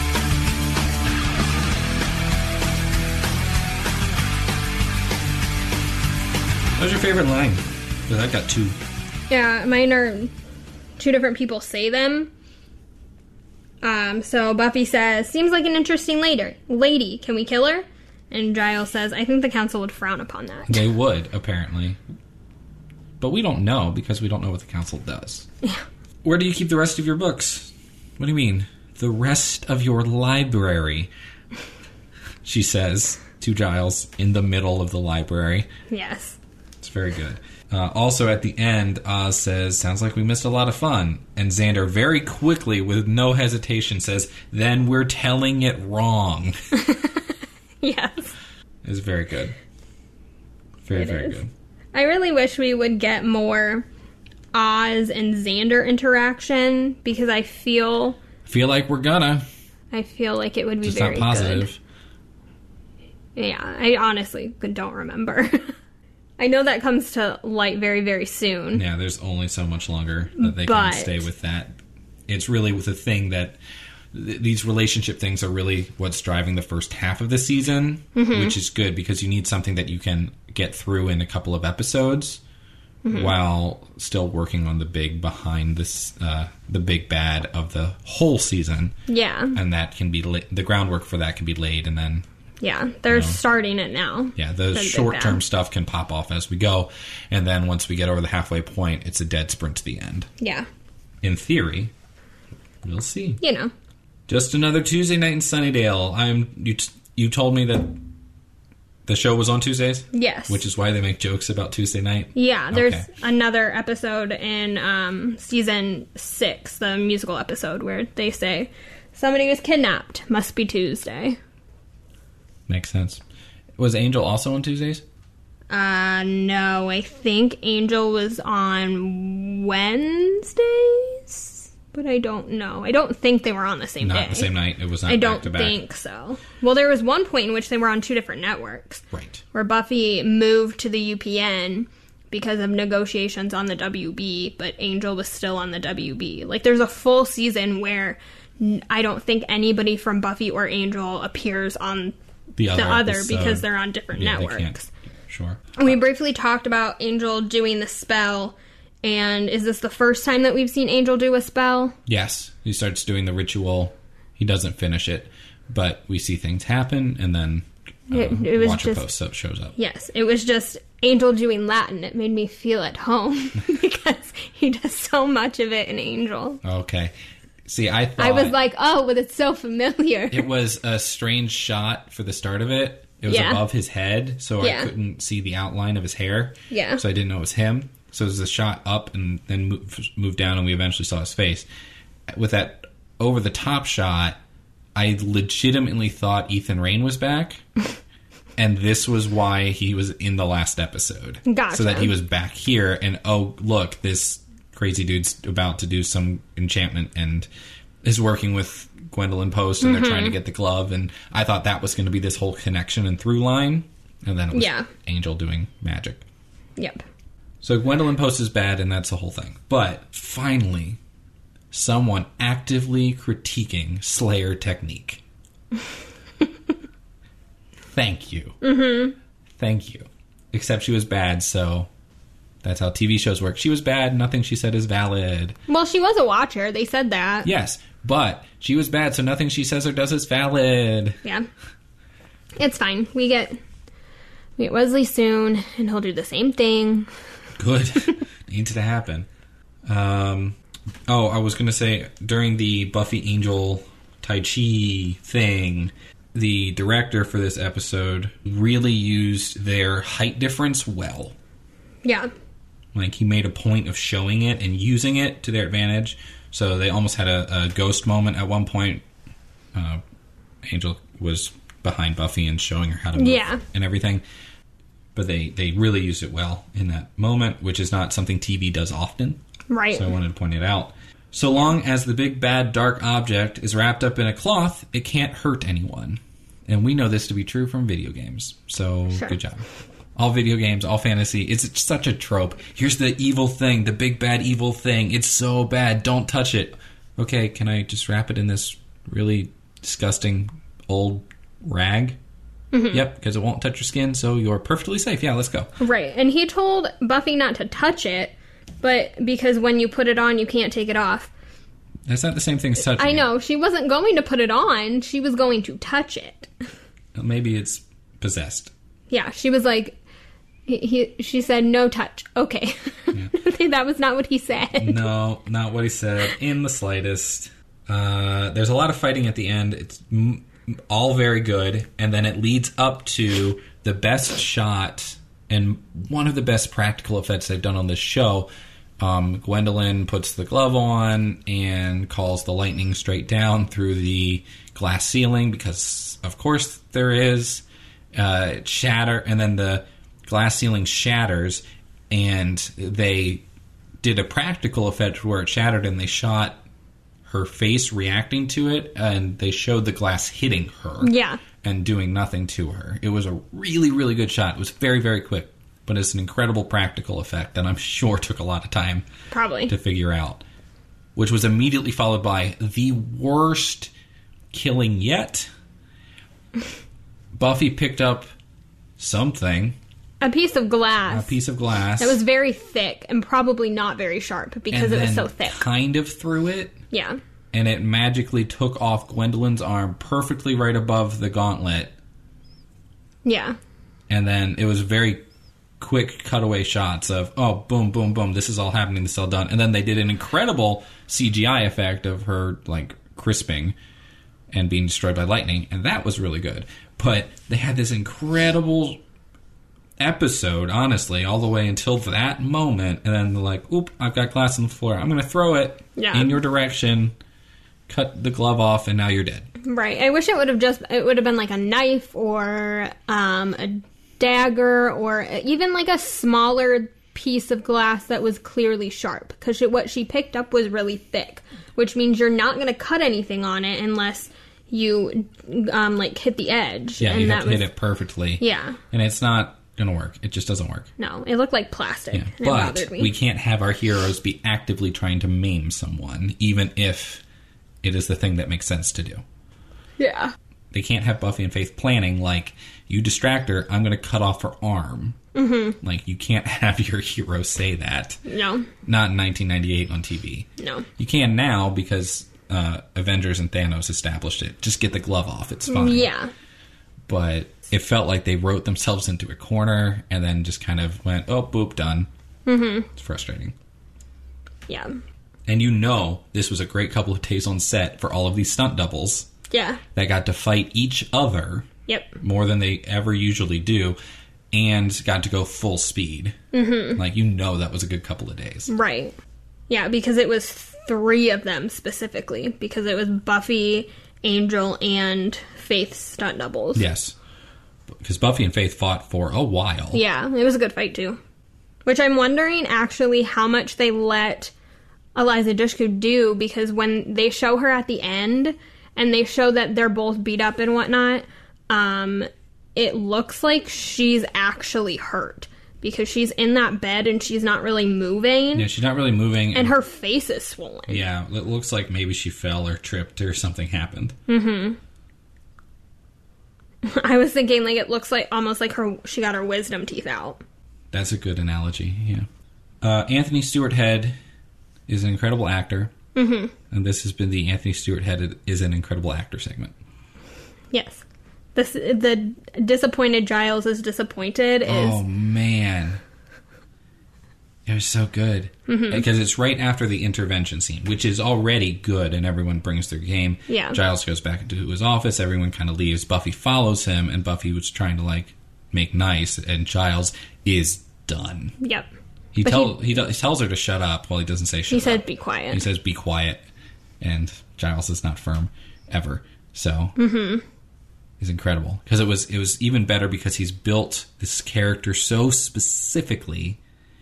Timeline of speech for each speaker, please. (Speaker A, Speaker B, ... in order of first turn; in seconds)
Speaker A: 6.8-8.8, 20.7-22.0, 23.2-25.4, 26.2-31.1, 32.4-35.7, 36.8-46.5, 48.8-49.5, 50.8-51.5, 58.5-59.4, 60.8-61.8, 68.7-73.6, 74.1-82.4, 83.1-89.0, 89.5-92.2, 93.1-93.4, 94.3-100.3, 101.2-101.9, 102.8-103.4, 104.3-108.0, 109.0-113.1, 122.7-123.2, 123.8-125.0, 134.0-135.8, 139.1-139.4, 152.6-156.0, 162.1-169.7, 176.6-177.1, 177.7-178.6, 180.3-191.7, 192.3-194.4, 194.9-197.6, 198.6-207.5, 208.0-216.2, 217.6-221.0, 221.7-225.2, 227.9-228.6, 229.6-231.9, 232.6-235.6, 237.4-241.2, 247.6-249.3, 249.9-250.6, 251.1-261.3, 262.9-269.0, 269.7-270.0, 270.6-274.2, 275.1-279.4, 279.9-302.2, 302.9-305.7, 312.1-313.3, 317.1-318.7, 324.8-338.5, 339.0-353.4, 354.0-356.6, 357.2-369.1, 369.7-370.4, 371.1-373.9, 374.5-375.5, 377.3-378.3, 379.0-379.8, 381.1-382.2, 384.7-386.8, 387.5-391.9, 394.1-395.2, 395.8-403.8, 404.5-409.0, 410.0-417.1, 417.9-419.5, 437.0-440.9, 442.1-447.2, 447.8-449.2, 450.7-455.2, 455.8-458.2, 458.8-466.1, 467.1-472.1, 472.9-473.5, 475.5-479.3, 479.9-481.7, 482.2-484.0, 484.5-486.4, 486.9-488.7, 496.7-497.1, 497.9-500.0, 518.5-519.8, 520.9-524.2, 530.9-532.3, 532.8-534.2, 534.9-535.9, 536.7-539.7, 544.6-546.0, 547.6-561.6, 562.3-566.4, 567.0-570.0, 571.2-576.6
Speaker B: 9.3-10.3, 11.0-12.3, 13.8-20.8, 35.9-36.4, 46.7-48.3, 50.9-51.4, 51.9-53.9, 54.5-58.2, 59.9-61.7, 63.4-65.7, 66.4-68.8, 70.4-71.2, 78.2-78.5, 83.0-83.3, 89.1-89.6, 92.6-95.4, 100.4-100.7, 103.4-103.7, 110.1-110.6, 112.3-121.4, 125.7-134.5, 135.1-152.1, 152.7-154.9, 155.8-161.9, 168.1-169.0, 169.8-176.6, 178.2-180.5, 183.3-183.6, 184.6-184.9, 186.7-187.0, 201.4-202.1, 209.8-210.4, 214.5-214.9, 216.8-217.0, 228.6-229.1, 235.7-237.5, 242.6-243.6, 244.6-247.1, 262.0-262.3, 273.2-273.6, 279.7-280.1, 302.7-303.0, 305.8-311.3, 312.9-316.5, 319.1-319.9, 320.7-325.1, 361.0-361.4, 369.3-369.7, 380.2-381.3, 382.0-385.6, 386.9-387.2, 393.2-393.6, 415.9-416.3, 419.6-437.7, 438.4-438.8, 441.0-443.1, 450.0-450.3, 455.3-455.8, 458.3-458.7, 460.6-460.9, 465.7-466.3, 472.4-472.9, 474.7-475.0, 479.5-479.8, 481.9-482.2, 486.5-487.0, 488.7-489.1, 489.7-496.8, 499.9-501.2, 501.8-504.5, 505.1-518.7, 519.5-521.0, 524.3-524.8, 526.8-530.4, 536.1-536.5, 540.7-541.0, 541.5-545.0, 548.7-549.0, 553.5-553.8, 561.6-561.9, 562.4-563.0, 564.7-565.6, 570.0-570.4